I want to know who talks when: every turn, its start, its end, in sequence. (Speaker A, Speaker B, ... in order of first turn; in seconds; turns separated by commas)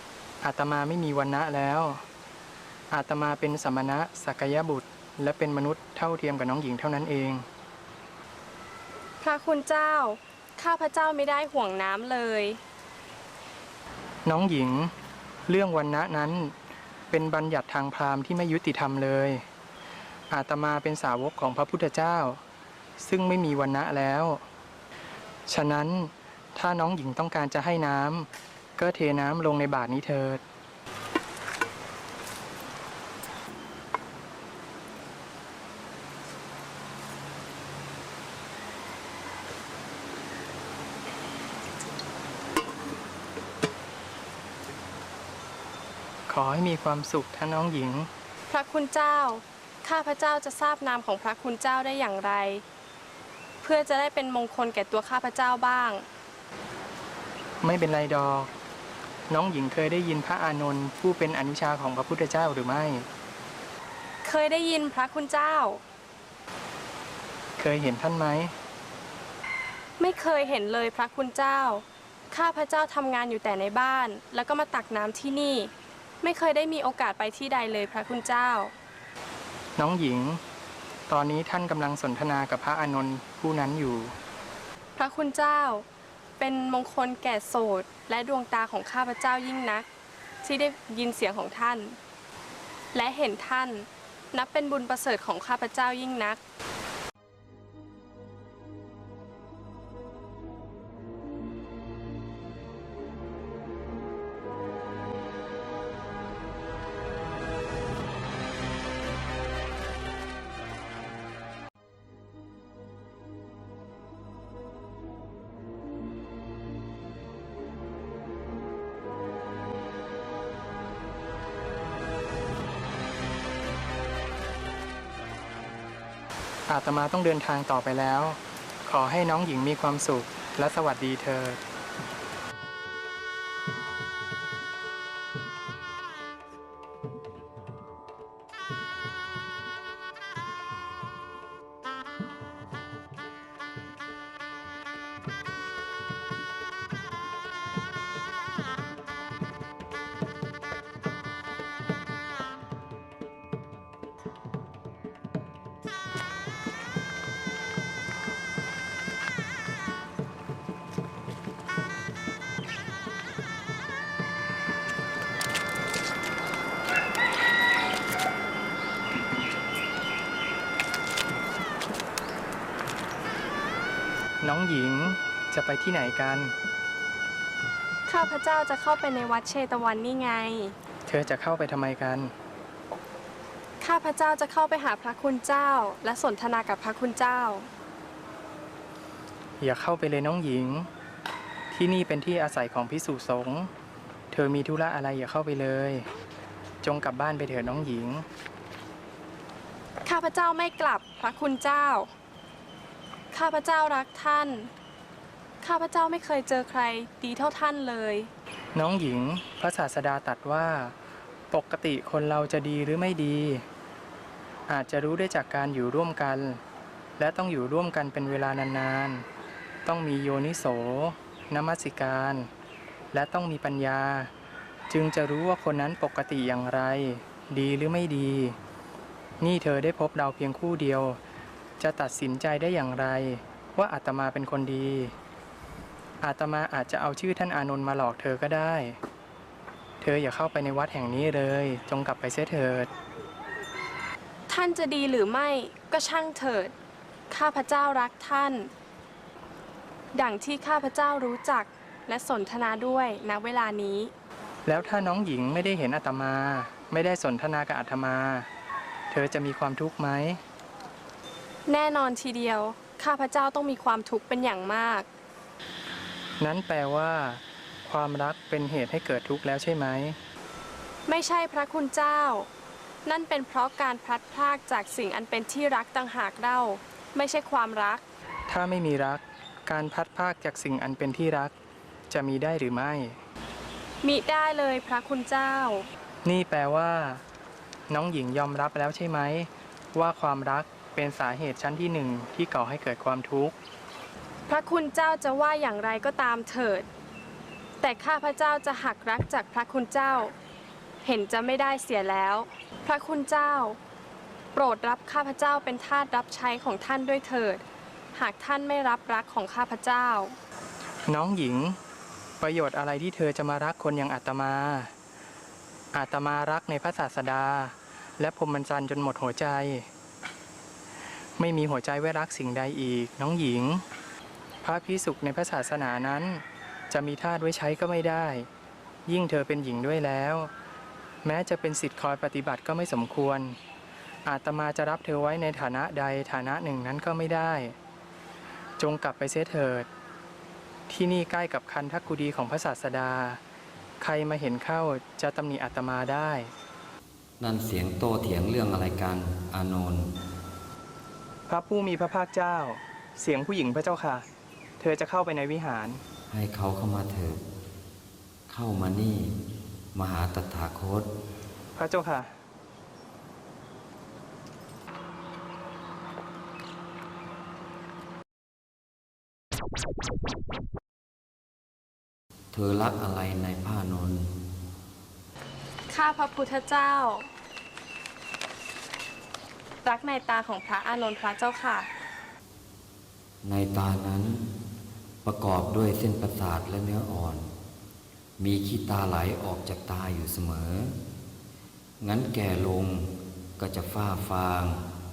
Speaker A: 0.4-2.0, Speaker A: 2.9-7.5, Speaker B: 9.2-12.6, Speaker A: 14.2-14.9, Speaker A: 15.5-16.5, Speaker A: 17.1-19.4, Speaker A: 20.3-22.4, Speaker A: 23.0-24.4, Speaker A: 25.5-30.4, Speaker A: 46.3-48.1, Speaker B: 48.5-52.6, Speaker B: 53.6-56.0, Speaker A: 57.6-58.5, Speaker A: 59.3-63.1, Speaker B: 64.2-65.8, Speaker A: 67.6-68.5, Speaker B: 70.0-78.7, Speaker A: 79.8-80.4, Speaker A: 81.1-84.1, Speaker B: 85.0-85.8, Speaker B: 86.4-89.9, Speaker B: 90.4-92.0, Speaker B: 92.9-96.4, Speaker A: 126.7-131.6, Speaker A: 174.4-176.5, Speaker B: 178.1-180.8, Speaker A: 181.1-182.3, Speaker B: 183.8-187.7, Speaker A: 189.6-190.9, Speaker A: 191.7-193.7, Speaker A: 194.3-196.1, Speaker A: 196.8-198.2, Speaker B: 200.0-202.1, Speaker B: 203.3-204.7, Speaker B: 205.6-208.3, Speaker A: 208.7-210.9, Speaker A: 211.5-213.7, Speaker A: 214.7-216.6, Speaker A: 217.2-219.2, Speaker A: 219.8-222.5, Speaker A: 223.1-224.3, Speaker A: 224.9-228.6, Speaker A: 229.4-231.2, Speaker A: 231.8-235.1, Speaker A: 236.2-238.9, Speaker A: 240.0-242.9, Speaker B: 244.5-246.7, Speaker B: 247.3-248.7, Speaker B: 250.1-254.1, Speaker A: 254.7-258.5, Speaker A: 259.1-260.4, Speaker B: 261.7-265.1, Speaker A: 266.4-270.2, Speaker B: 271.1-272.5, Speaker B: 273.1-278.0, Speaker A: 278.5-281.5, Speaker A: 282.1-283.2, Speaker B: 284.0-285.9, Speaker A: 286.2-287.2, Speaker A: 287.9-293.5, Speaker B: 294.5-296.9, Speaker B: 297.8-300.3, Speaker B: 301.0-303.8, Speaker B: 304.5-307.6, Speaker B: 308.1-310.3, Speaker A: 311.1-311.8, Speaker A: 312.4-314.9, Speaker A: 315.9-319.9, Speaker A: 321.4-323.8, Speaker A: 324.6-328.5, Speaker A: 329.1-330.5, Speaker A: 331.2-333.6, Speaker A: 334.2-337.8, Speaker A: 338.8-339.9, Speaker A: 340.9-343.4, Speaker A: 344.0-346.5, Speaker C: 347.4-350.1, Speaker A: 351.5-354.2, Speaker A: 354.8-356.0, Speaker C: 356.3-357.4, Speaker C: 358.5-359.4, Speaker C: 359.9-361.1, Speaker A: 361.8-362.3, Speaker C: 372.5-374.3, Speaker B: 375.9-377.3, Speaker B: 379.8-381.9, Speaker C: 383.4-384.5, Speaker C: 385.2-387.5, Speaker C: 388.4-390.9, Speaker C: 392.0-394.8